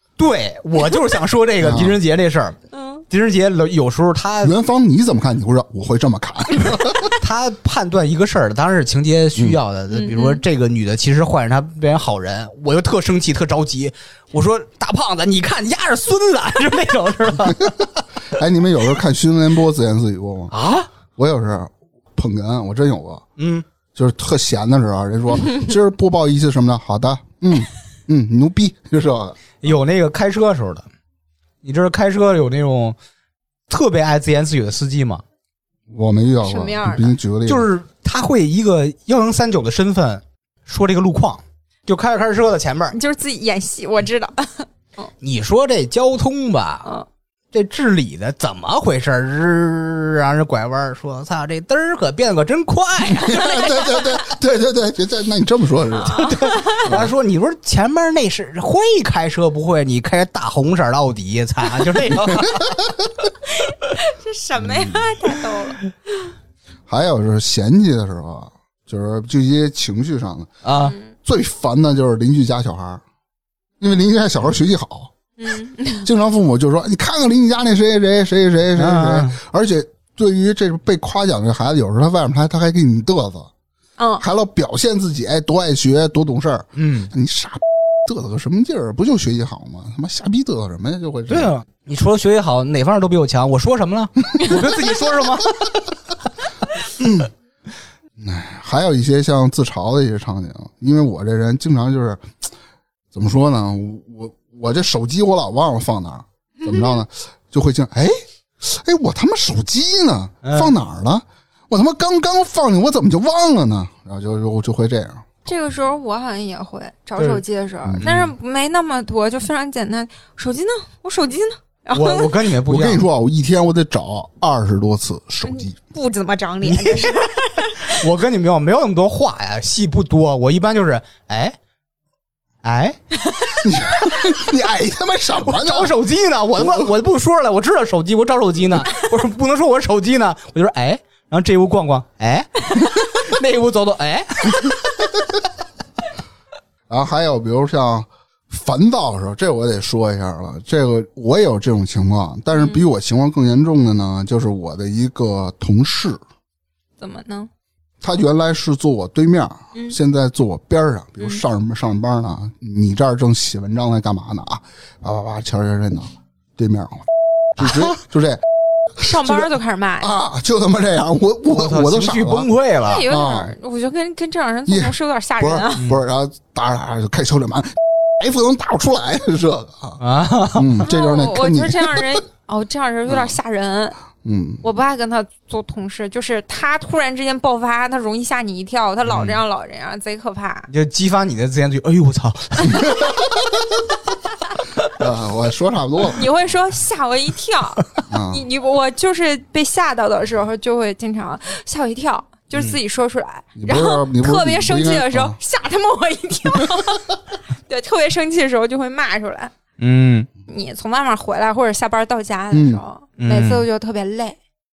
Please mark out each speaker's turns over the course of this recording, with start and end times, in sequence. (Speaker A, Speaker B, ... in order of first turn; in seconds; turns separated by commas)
Speaker A: 0.2-2.6, Speaker B: 1.6-2.0, Speaker C: 2.7-3.0, Speaker A: 3.1-4.5, Speaker B: 4.4-7.2, Speaker A: 7.2-17.8, Speaker C: 9.9-10.4, Speaker B: 17.4-17.7, Speaker B: 18.3-20.5, Speaker A: 20.5-20.9, Speaker B: 21.2-23.2, Speaker A: 23.4-23.6, Speaker B: 23.9-29.4, Speaker A: 29.6-30.9, Speaker A: 31.6-33.0, Speaker A: 33.7-35.2, Speaker B: 35.9-37.7, Speaker C: 36.4-37.2, Speaker A: 37.5-43.0, Speaker C: 42.9-45.1, Speaker A: 45.2-46.9, Speaker A: 47.5-53.6, Speaker B: 53.1-56.3, Speaker C: 56.0-56.9, Speaker A: 56.1-62.8, Speaker B: 56.9-57.1, Speaker B: 62.3-62.8, Speaker C: 63.6-65.8, Speaker B: 64.6-65.0, Speaker B: 66.9-70.5, Speaker A: 70.6-71.0, Speaker B: 71.2-73.0, Speaker B: 73.8-75.1, Speaker C: 75.4-76.1, Speaker B: 76.0-83.5, Speaker A: 78.8-79.4, Speaker C: 84.0-84.2, Speaker B: 84.2-91.5, Speaker A: 86.8-87.1, Speaker A: 91.3-95.8, Speaker B: 97.0-97.3, Speaker B: 98.2-102.3, Speaker B: 103.1-115.3, Speaker C: 106.6-107.0, Speaker A: 110.4-110.7, Speaker C: 115.5-122.3, Speaker A: 118.0-118.3, Speaker A: 121.9-123.1, Speaker B: 122.7-125.8, Speaker C: 125.5-128.0, Speaker A: 126.6-131.6, Speaker A: 132.6-133.0, Speaker C: 133.3-133.6, Speaker B: 133.6-135.9, Speaker A: 135.4-145.2, Speaker B: 136.6-136.9, Speaker B: 146.9-156.2, Speaker C: 152.5-152.8, Speaker C: 157.0-157.5, Speaker B: 158.0-168.4, Speaker A: 167.6-168.0, Speaker C: 169.0-170.1, Speaker B: 169.2-169.5, Speaker B: 170.0-172.5, Speaker A: 171.5-173.1, Speaker C: 172.8-175.8, Speaker B: 173.1-173.5, Speaker B: 174.7-180.0, Speaker A: 175.8-176.0, Speaker A: 180.0-180.9, Speaker B: 180.6-182.2, Speaker C: 180.8-184.0, Speaker B: 183.1-183.3, Speaker B: 184.2-184.6, Speaker C: 184.6-190.7, Speaker A: 189.1-189.4, Speaker A: 190.7-193.1, Speaker B: 192.7-193.7, Speaker B: 194.9-196.2, Speaker C: 196.2-207.1, Speaker B: 198.1-198.4, Speaker B: 203.6-205.4, Speaker C: 207.7-209.5, Speaker A: 209.8-210.3, Speaker C: 210.5-214.4, Speaker B: 212.5-212.8, Speaker A: 213.2-213.7